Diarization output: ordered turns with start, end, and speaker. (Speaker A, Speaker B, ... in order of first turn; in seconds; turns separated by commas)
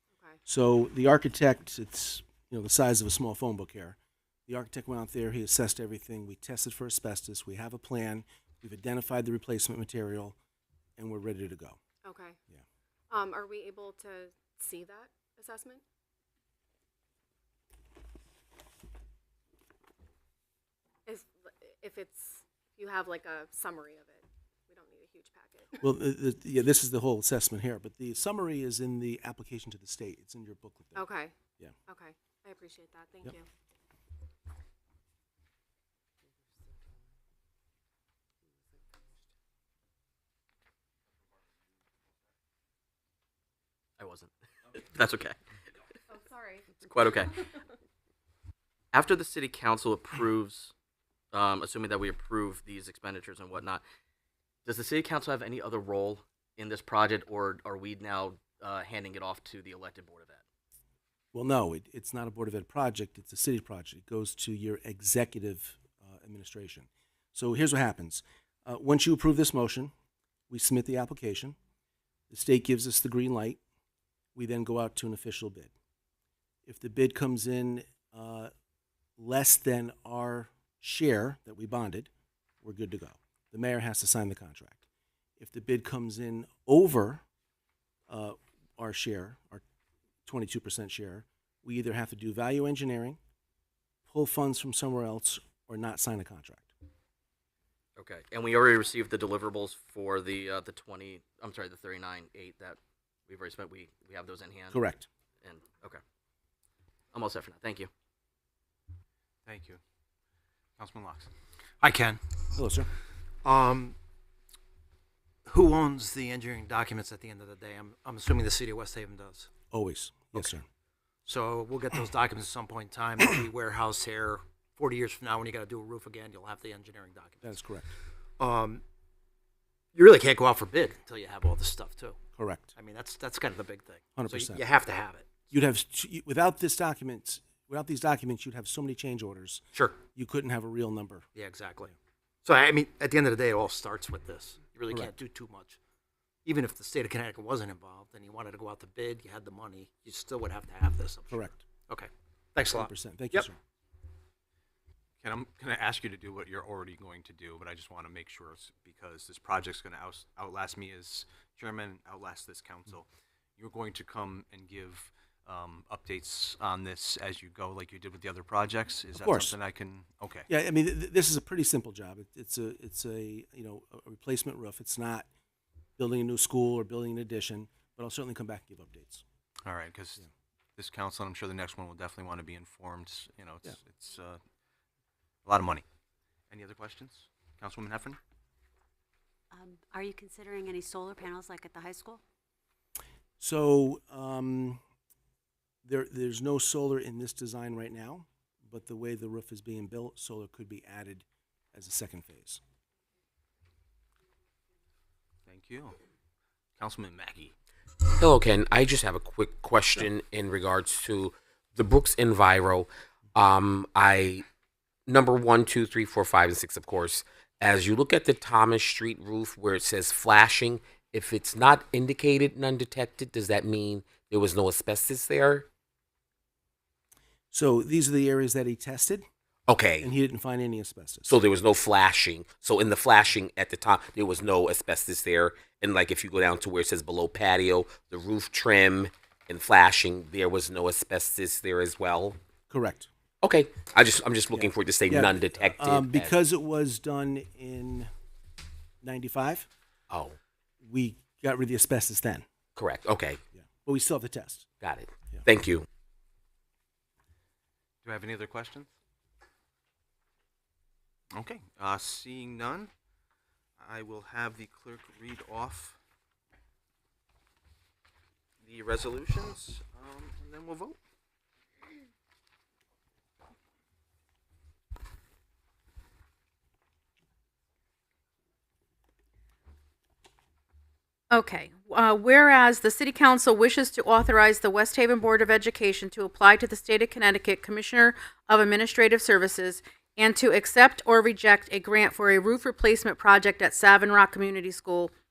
Speaker A: 0.1-0.4, Speaker B: 0.5-10.4, Speaker B: 11.0-11.8, Speaker A: 12.0-12.4, Speaker A: 13.1-15.8, Speaker A: 21.1-25.8, Speaker B: 25.8-31.1, Speaker A: 30.9-31.4, Speaker A: 31.9-33.5, Speaker C: 44.0-45.4, Speaker A: 46.1-47.2, Speaker C: 46.8-47.5, Speaker C: 48.9-50.7, Speaker C: 51.3-53.8, Speaker C: 54.7-60.4, Speaker B: 61.3-69.9, Speaker B: 70.5-71.5, Speaker B: 72.3-73.6, Speaker B: 74.3-75.7, Speaker B: 76.7-78.5, Speaker B: 79.2-82.1, Speaker B: 82.6-84.8, Speaker B: 85.4-87.2, Speaker B: 88.1-89.6, Speaker B: 90.3-93.2, Speaker B: 94.1-96.7, Speaker C: 98.0-104.8, Speaker B: 104.7-105.1, Speaker C: 105.4-106.0, Speaker C: 107.1-107.9, Speaker D: 109.5-109.8, Speaker D: 110.8-111.3, Speaker E: 111.8-112.2, Speaker B: 112.6-112.9, Speaker E: 113.5-114.0, Speaker E: 115.5-119.5, Speaker B: 119.7-120.7, Speaker E: 121.3-127.5, Speaker B: 127.4-127.9, Speaker E: 128.4-128.8, Speaker E: 130.0-132.2, Speaker B: 132.4-132.7, Speaker E: 132.8-135.3, Speaker B: 134.2-134.6, Speaker B: 135.5-141.2, Speaker E: 141.4-141.9, Speaker E: 142.4-145.8, Speaker E: 146.5-151.4, Speaker B: 151.3-151.6, Speaker E: 151.9-153.4, Speaker B: 152.7-153.6, Speaker D: 155.2-163.1, Speaker D: 163.6-170.5, Speaker B: 169.2-169.6, Speaker B: 170.5-175.3, Speaker B: 176.0-179.2, Speaker D: 179.7-180.2, Speaker D: 180.8-184.4, Speaker D: 185.4-185.8, Speaker D: 186.5-188.2, Speaker F: 189.5-192.2, Speaker B: 193.4-194.8, Speaker B: 195.8-202.6, Speaker D: 205.5-206.0, Speaker D: 206.8-207.5, Speaker G: 208.2-214.4, Speaker G: 215.1-225.7, Speaker B: 227.5-229.2, Speaker G: 229.7-230.1, Speaker B: 230.0-231.3, Speaker G: 231.3-242.4, Speaker B: 242.7-243.1, Speaker G: 243.4-246.3, Speaker B: 244.5-248.1, Speaker B: 249.0-249.7, Speaker G: 250.1-250.4, Speaker B: 250.8-252.4, Speaker G: 252.8-253.4, Speaker B: 253.6-254.7, Speaker G: 254.8-255.9, Speaker D: 258.0-258.9, Speaker D: 261.3-262.9, Speaker D: 263.8-266.0, Speaker D: 268.6-271.0, Speaker H: 281.3-295.1